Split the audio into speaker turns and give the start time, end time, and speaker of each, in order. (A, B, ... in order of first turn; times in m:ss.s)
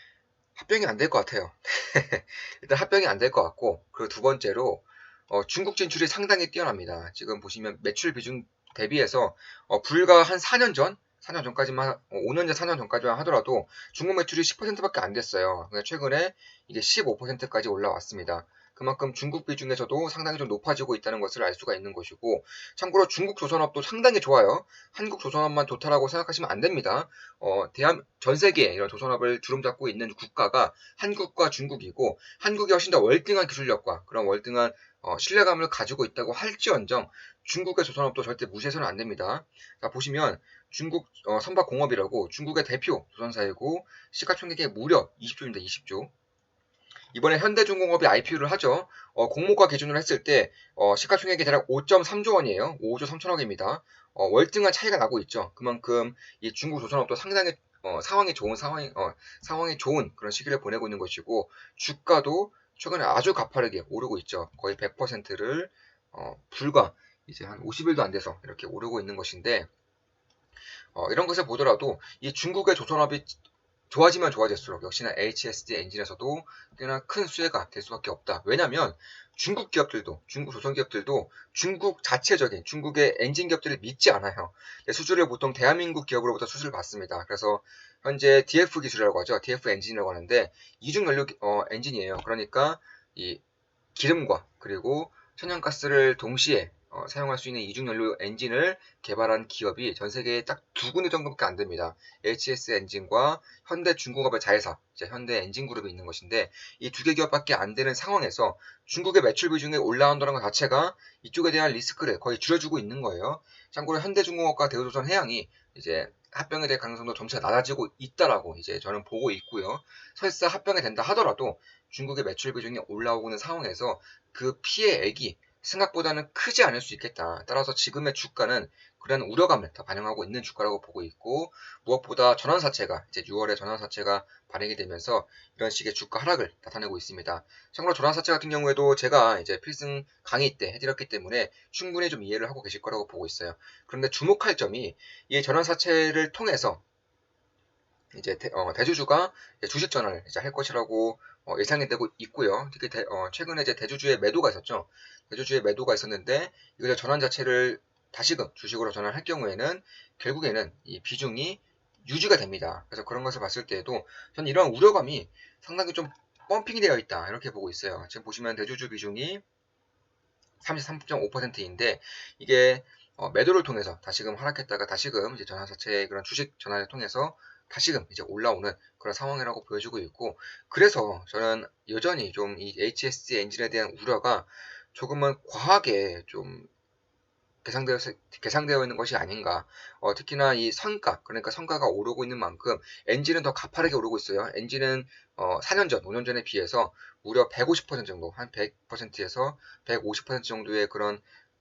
0:00.6-0:46.1 A
0:47.1-1:09.7 A
1:10.9-1:13.4 A
1:13.9-1:33.4 A
1:33.9-2:26.8 A
2:28.1-2:49.4 A
2:50.6-3:06.7 A
3:07.6-3:21.2 A